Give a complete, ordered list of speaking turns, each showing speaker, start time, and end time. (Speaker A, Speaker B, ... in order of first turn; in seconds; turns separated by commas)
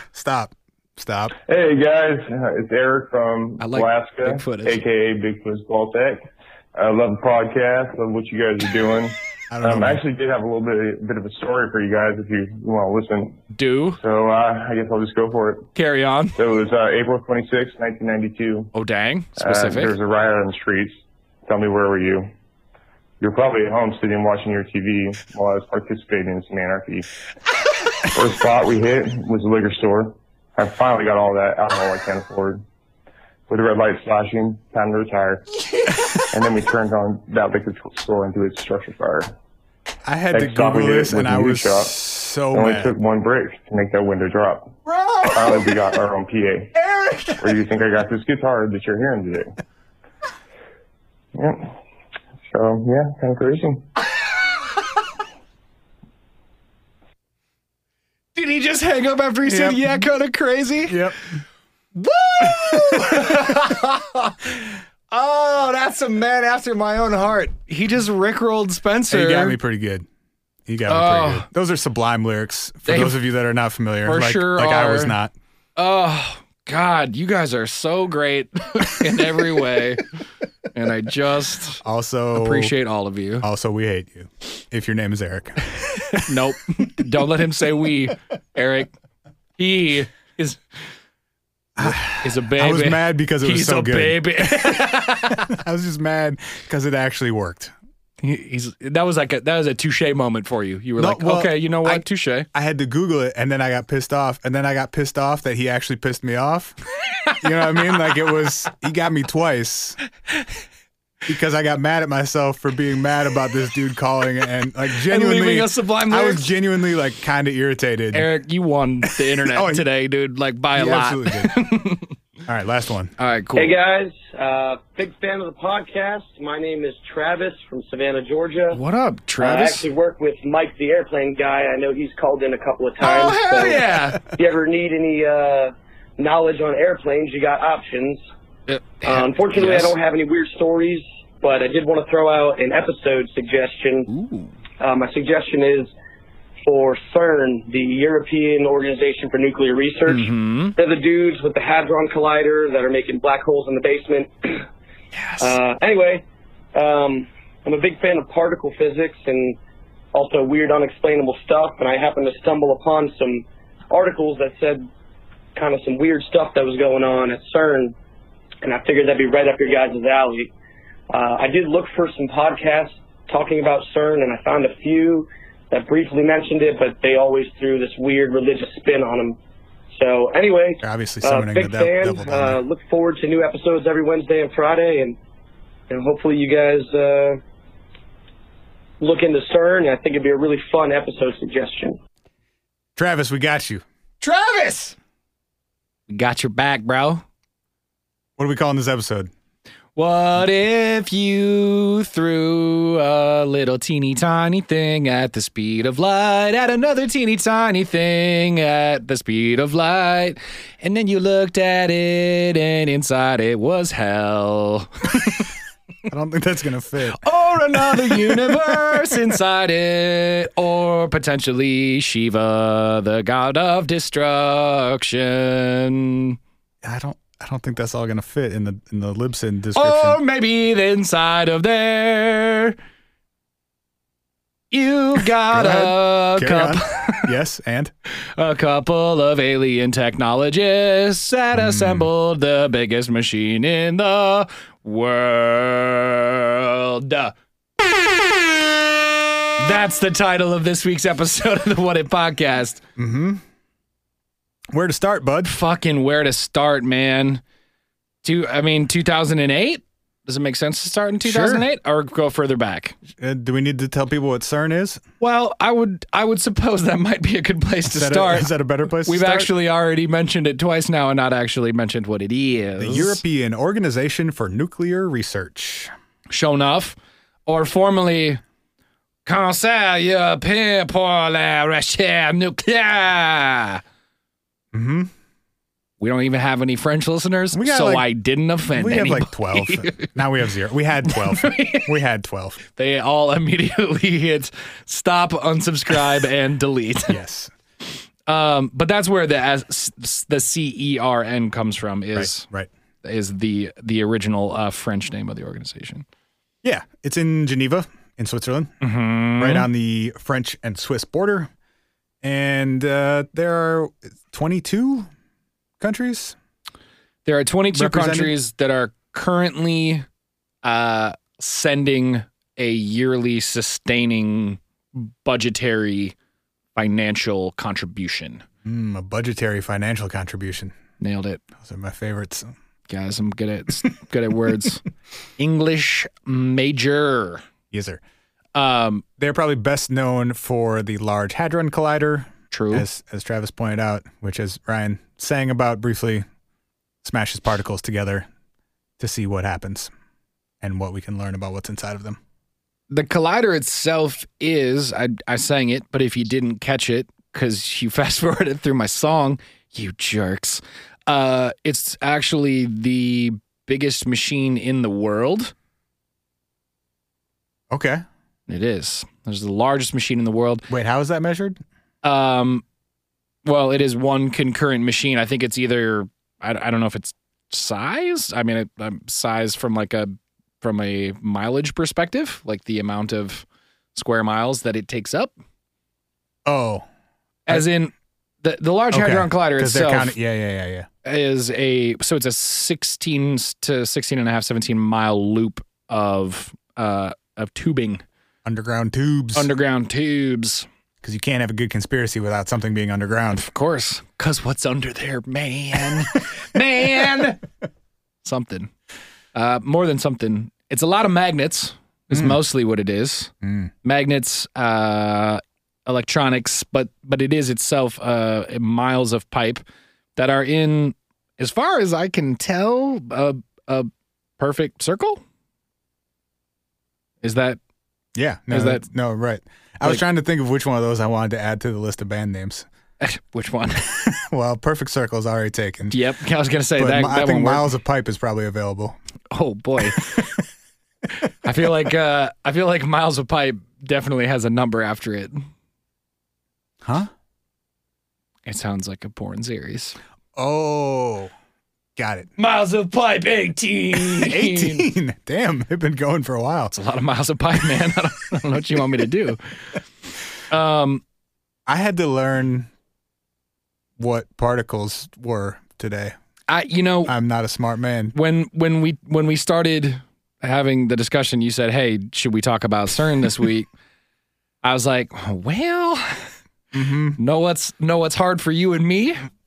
Speaker A: 0.1-1.4, Speaker B: 1.5-13.4, Speaker C: 3.6-4.8, Speaker A: 9.5-10.0, Speaker C: 13.5-14.0, Speaker B: 14.0-15.7, Speaker C: 15.8-16.4, Speaker B: 16.4-18.7, Speaker C: 18.7-19.9, Speaker B: 19.4-22.3, Speaker B: 23.2-27.1, Speaker B: 28.1-32.6, Speaker B: 33.5-35.5, Speaker B: 36.3-39.3, Speaker A: 40.1-43.0, Speaker B: 40.3-42.0, Speaker B: 42.5-44.8, Speaker C: 44.9-45.6, Speaker B: 45.3-46.7, Speaker C: 46.8-47.4, Speaker B: 47.4-49.5, Speaker B: 51.4-51.8, Speaker B: 52.5-53.9, Speaker C: 58.4-61.0, Speaker A: 59.5-60.0, Speaker A: 60.9-61.2, Speaker C: 62.0-64.5, Speaker A: 62.7-63.2, Speaker C: 65.1-69.6, Speaker A: 69.1-70.1, Speaker A: 70.7-75.3, Speaker C: 70.9-71.5, Speaker C: 72.9-73.2, Speaker C: 74.1-75.2, Speaker C: 75.8-80.1, Speaker C: 80.7-81.8, Speaker A: 81.8-82.7, Speaker C: 82.3-83.5, Speaker A: 83.4-86.3, Speaker C: 86.2-88.9, Speaker C: 89.6-90.6, Speaker A: 91.8-97.7, Speaker C: 91.8-95.5, Speaker C: 98.2-102.5, Speaker A: 101.0-106.8, Speaker A: 107.4-110.0, Speaker A: 111.3-118.3, Speaker C: 115.1-116.5, Speaker C: 118.1-122.1, Speaker A: 119.4-119.8, Speaker A: 120.7-121.6, Speaker A: 122.5-123.1, Speaker C: 123.2-123.7, Speaker D: 123.5-128.8, Speaker C: 128.7-129.9, Speaker D: 129.4-138.2, Speaker C: 133.0-134.3, Speaker C: 138.7-139.9, Speaker D: 139.1-144.1, Speaker C: 144.1-144.5, Speaker D: 144.8-145.9, Speaker D: 146.7-154.6, Speaker C: 150.1-150.8, Speaker C: 155.1-155.6, Speaker D: 155.4-159.6, Speaker D: 160.1-164.9, Speaker D: 165.6-167.9, Speaker D: 168.6-170.5, Speaker D: 171.1-179.4, Speaker D: 179.9-185.2, Speaker A: 180.8-182.6, Speaker D: 185.9-187.4, Speaker D: 189.0-192.0, Speaker A: 193.0-193.8, Speaker C: 194.2-194.9, Speaker C: 196.1-197.2, Speaker A: 198.4-199.3, Speaker C: 200.0-215.5, Speaker A: 216.1-219.2, Speaker C: 217.1-226.4, Speaker A: 226.8-230.2, Speaker C: 229.8-232.8, Speaker C: 234.7-237.3, Speaker A: 235.5-237.9, Speaker C: 238.4-247.3, Speaker A: 241.5-242.1, Speaker C: 249.6-252.8, Speaker A: 253.0-253.4, Speaker A: 254.7-255.5, Speaker C: 255.4-257.4, Speaker C: 258.2-263.0, Speaker A: 261.2-261.7, Speaker A: 263.1-265.0, Speaker C: 265.2-268.5, Speaker A: 267.9-269.5, Speaker C: 269.0-273.2, Speaker A: 272.8-275.9, Speaker C: 276.3-277.0, Speaker C: 277.5-278.4, Speaker C: 279.2-283.8, Speaker A: 284.7-285.1, Speaker C: 286.0-290.1, Speaker A: 287.5-288.1, Speaker A: 288.7-292.6, Speaker C: 291.1-291.9, Speaker C: 292.8-297.2, Speaker A: 297.1-297.5, Speaker C: 298.3-302.5, Speaker A: 302.1-302.7, Speaker C: 303.0-306.1, Speaker A: 306.6-308.7, Speaker C: 308.8-309.7, Speaker A: 309.4-311.5, Speaker A: 312.2-315.1, Speaker A: 315.8-316.4, Speaker C: 317.3-320.1, Speaker A: 317.7-318.4, Speaker C: 320.6-326.1, Speaker C: 326.8-328.4, Speaker A: 328.6-330.7, Speaker C: 331.0-331.4, Speaker A: 331.6-332.5, Speaker C: 332.9-334.8, Speaker C: 335.4-337.4, Speaker A: 337.7-338.0, Speaker C: 338.6-339.0, Speaker A: 339.2-346.2, Speaker C: 342.5-342.9, Speaker A: 347.0-348.3, Speaker A: 349.0-349.9, Speaker A: 350.6-352.2, Speaker C: 352.9-365.5, Speaker A: 367.7-368.0, Speaker C: 368.5-370.7, Speaker A: 370.7-371.6, Speaker C: 372.0-372.6, Speaker C: 373.4-385.3, Speaker A: 386.5-386.9, Speaker C: 387.5-390.1, Speaker A: 388.9-390.9, Speaker C: 391.0-398.0, Speaker A: 398.4-399.5, Speaker C: 399.4-400.7, Speaker A: 401.0-403.5, Speaker C: 403.4-407.4, Speaker C: 408.2-408.7, Speaker C: 409.3-413.3, Speaker A: 412.1-412.4, Speaker A: 413.4-413.7, Speaker C: 413.8-419.6, Speaker C: 420.2-425.2, Speaker C: 427.2-427.6, Speaker A: 428.1-432.7, Speaker C: 428.5-428.9, Speaker C: 433.0-433.9, Speaker A: 433.9-436.0, Speaker C: 435.9-437.7, Speaker A: 436.8-439.0, Speaker C: 439.3-440.2, Speaker A: 440.0-440.2, Speaker C: 441.4-445.4, Speaker A: 446.8-447.1, Speaker C: 448.5-450.0, Speaker A: 450.4-451.3, Speaker A: 452.0-452.3, Speaker C: 452.4-454.9, Speaker A: 454.0-456.7, Speaker C: 456.7-459.4, Speaker C: 460.5-461.0, Speaker A: 461.7-462.7, Speaker A: 464.0-466.1, Speaker C: 466.5-467.1, Speaker A: 467.1-468.1, Speaker C: 468.1-473.7, Speaker C: 474.6-476.3, Speaker A: 476.7-477.2, Speaker C: 477.2-479.2